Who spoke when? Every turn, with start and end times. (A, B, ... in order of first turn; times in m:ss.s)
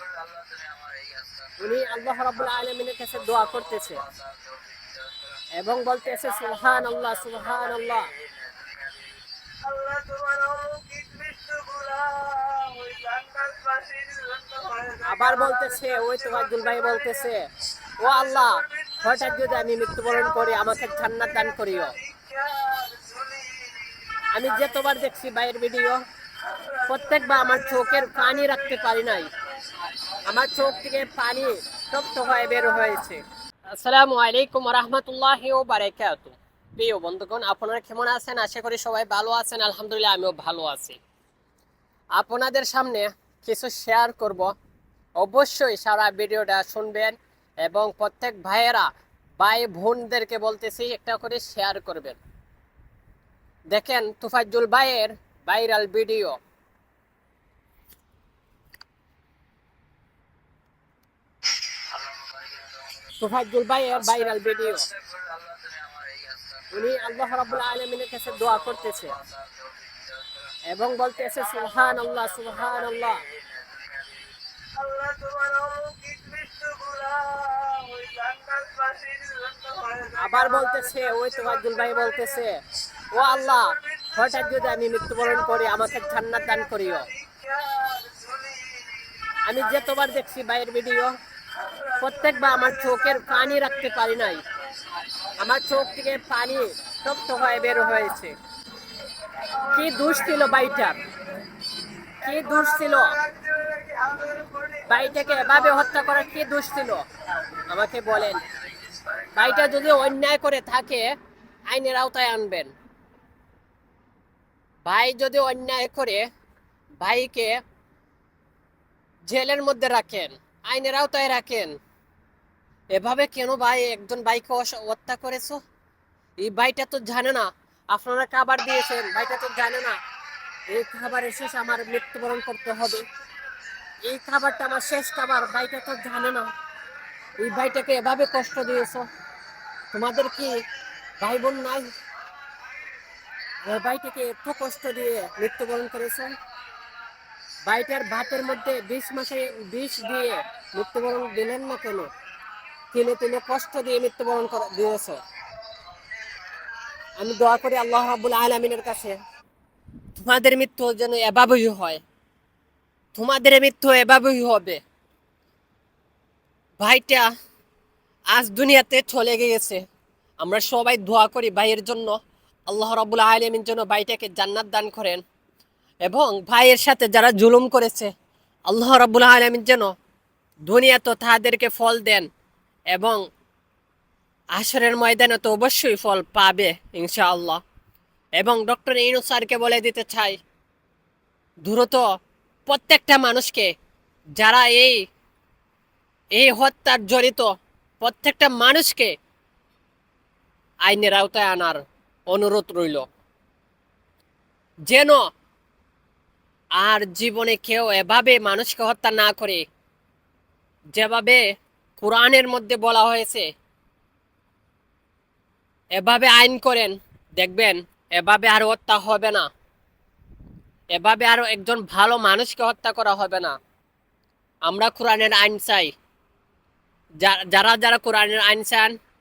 0:00.2-0:00.7 A
0:01.6-0:04.0 B
0:05.6-0:08.1 B
0:09.6-0:15.0 A
0:15.0-0:17.4 B
0:18.0-0:21.9 B
0:22.2-0:23.8 A
0:24.3-0:26.0 B
0:26.8-0:29.3 B
0:30.2-0:41.0 B
0:42.2-0:44.5 B
0:45.2-0:52.2 B
0:53.7-0:56.4 B
1:03.2-1:04.9 B
1:05.2-1:05.9 A
1:06.7-1:09.1 B
1:10.7-1:13.2 B
1:14.8-1:20.2 A
1:20.1-1:27.1 B
1:27.4-1:29.0 A
1:29.5-1:31.1 B
1:31.9-1:34.4 B
1:35.4-1:38.4 B
1:39.6-1:41.0 B
1:42.2-1:43.2 B
1:43.3-1:44.8 A
1:44.9-1:47.0 B
1:47.7-1:48.4 B
1:49.3-1:51.1 B
1:51.7-1:52.7 B
1:54.9-1:56.2 B
1:57.0-1:57.6 B
1:59.3-2:01.8 B
2:02.9-2:05.6 B
2:06.4-2:10.0 B
2:10.7-2:13.0 B
2:14.1-2:16.5 B
2:17.4-2:19.1 B
2:19.9-2:20.6 B
2:21.2-2:21.9 B
2:23.6-2:26.4 B
2:27.7-2:32.1 B
2:32.9-2:35.2 B
2:37.2-2:39.2 B
2:40.2-2:42.0 B
2:43.2-2:44.8 B
2:46.8-2:47.3 B
2:48.3-2:49.8 B
2:50.4-2:52.2 B
2:52.7-2:55.2 B
2:56.1-2:58.1 B
2:58.7-2:59.9 B
3:00.7-3:02.3 B
3:02.9-3:03.2 B
3:04.6-3:07.6 B
3:08.4-3:10.4 B
3:11.6-3:12.1 B
3:12.7-3:13.7 B
3:14.4-3:15.0 B
3:16.4-3:19.2 B
3:20.9-3:23.1 B
3:24.9-3:25.3 B
3:26.8-3:29.6 B
3:31.0-3:31.4 B
3:32.0-3:33.5 B
3:36.0-3:39.5 B
3:40.9-3:43.6 B
3:44.7-3:45.9 B
3:47.2-3:48.9 B